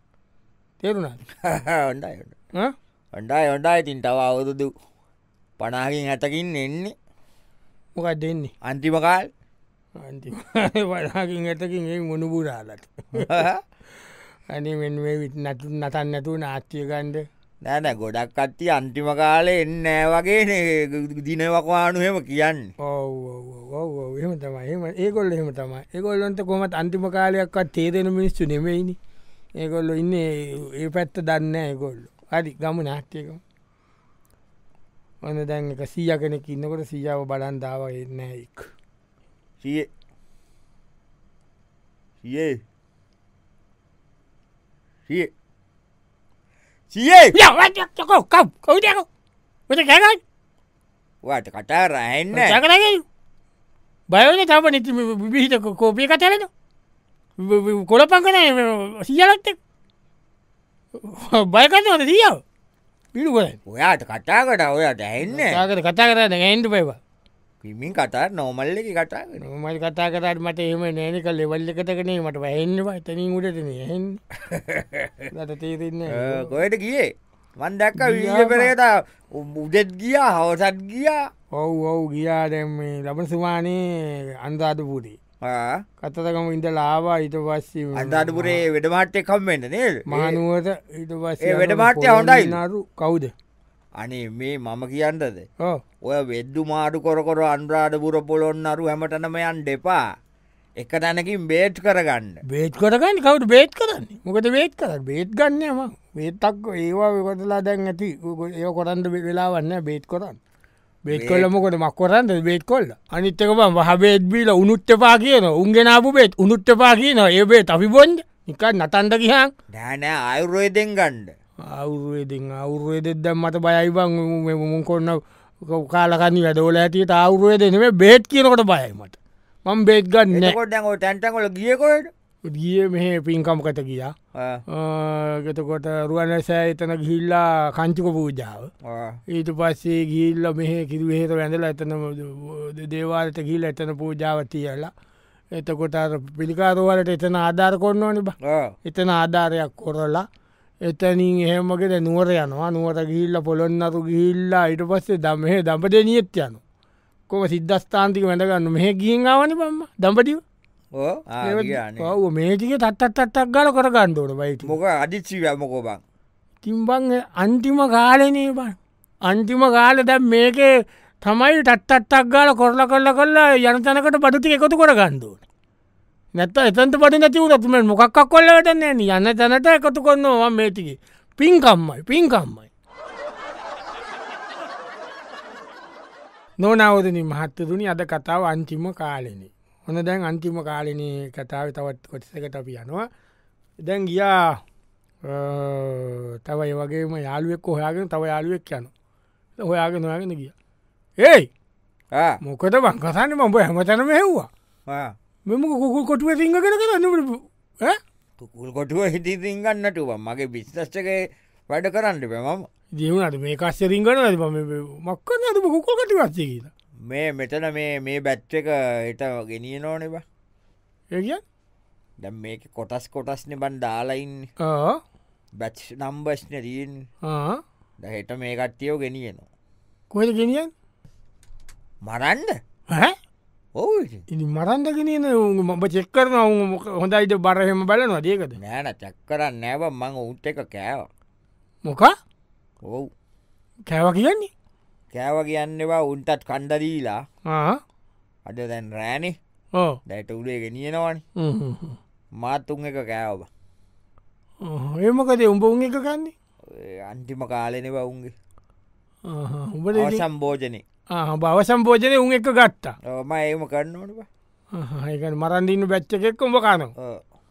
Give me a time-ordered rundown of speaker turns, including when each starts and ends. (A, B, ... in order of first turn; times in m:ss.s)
0:00.8-0:01.2 A
0:01.4-0:02.4 B
0:03.1-0:04.7 B
0:05.6-0:06.9 B
0:08.0-0:08.5 A
0:08.6-0:09.3 B
0:10.0-0:13.4 A
0:13.2-0:13.6 B
0:14.5-0:17.3 A
0:17.6-0:22.7 B
0:22.8-0:29.0 A
0:29.6-0:33.4 A
0:35.2-0:38.7 A
0:39.6-0:39.9 B
0:42.2-0:42.6 B
0:46.9-0:47.4 B
0:47.3-0:49.1 A
0:49.7-0:50.2 A
0:51.2-0:52.6 B
0:52.3-0:53.0 A
0:54.1-0:56.5 A
0:57.4-0:59.6 A
1:01.0-1:02.4 A
1:03.1-1:03.6 A
1:03.7-1:05.6 B
1:05.3-1:07.0 A
1:07.6-1:09.4 B
1:09.4-1:14.2 A
1:14.4-1:15.3 B
1:15.3-1:16.5 A
1:16.1-1:21.3 B
1:18.0-1:18.7 A
1:21.5-1:25.2 A
1:25.4-1:25.8 B
1:26.0-1:28.6 A
1:28.0-1:30.4 B
1:30.1-1:33.3 A
1:31.4-1:32.6 B
1:34.0-1:35.4 B
1:36.0-1:40.0 B
1:40.8-1:42.4 B
1:42.5-1:50.4 A
1:51.1-1:59.5 A
1:51.1-1:51.5 B
1:59.7-2:01.3 B
2:01.6-2:10.6 A
2:10.3-2:12.1 B
2:12.4-2:14.2 A
2:14.3-2:14.6 B
2:14.7-2:18.7 A
2:18.8-2:19.2 B
2:19.3-2:24.9 A
2:25.5-2:30.3 A
2:28.4-2:28.7 B
2:30.8-2:36.6 A
2:37.3-2:40.4 A
2:41.0-2:42.1 B
2:41.4-2:44.7 A
2:44.6-2:46.0 B
2:46.6-2:50.7 A
2:51.2-2:55.4 A
2:56.4-3:02.7 A
3:06.6-3:13.1 A
3:13.8-3:14.6 A
3:15.2-3:18.9 A
3:19.6-3:20.5 A
3:21.2-3:21.5 A
3:22.1-3:22.4 B
3:22.4-3:24.5 A
3:24.9-3:25.1 B
3:25.5-3:28.0 A
3:28.4-3:32.7 B
3:32.9-3:36.7 A
3:37.1-3:40.2 B
3:41.1-3:41.4 A
3:42.2-3:44.5 B
3:44.6-3:45.0 A
3:45.6-3:47.0 B
3:47.2-3:47.6 A
3:48.0-3:49.5 B
3:50.1-3:50.7 A
3:52.0-3:52.6 B
3:52.9-3:53.2 A
3:53.8-3:54.2 B
3:54.3-3:58.6 A
3:58.6-4:01.1 B
4:01.8-4:02.1 A
4:02.8-4:03.1 B
4:03.9-4:04.5 A
4:05.1-4:07.2 B
4:07.5-4:07.8 A
4:08.5-4:09.4 B
4:09.8-4:10.0 A
4:10.1-4:11.2 B
4:11.4-4:12.0 A
4:12.4-4:13.5 B
4:14.6-4:16.3 A
4:16.7-4:18.3 B
4:19.3-4:20.2 A
4:19.9-4:20.8 B
4:21.1-4:23.0 A
4:23.0-4:24.3 B
4:24.7-4:26.9 A
4:27.0-4:27.2 B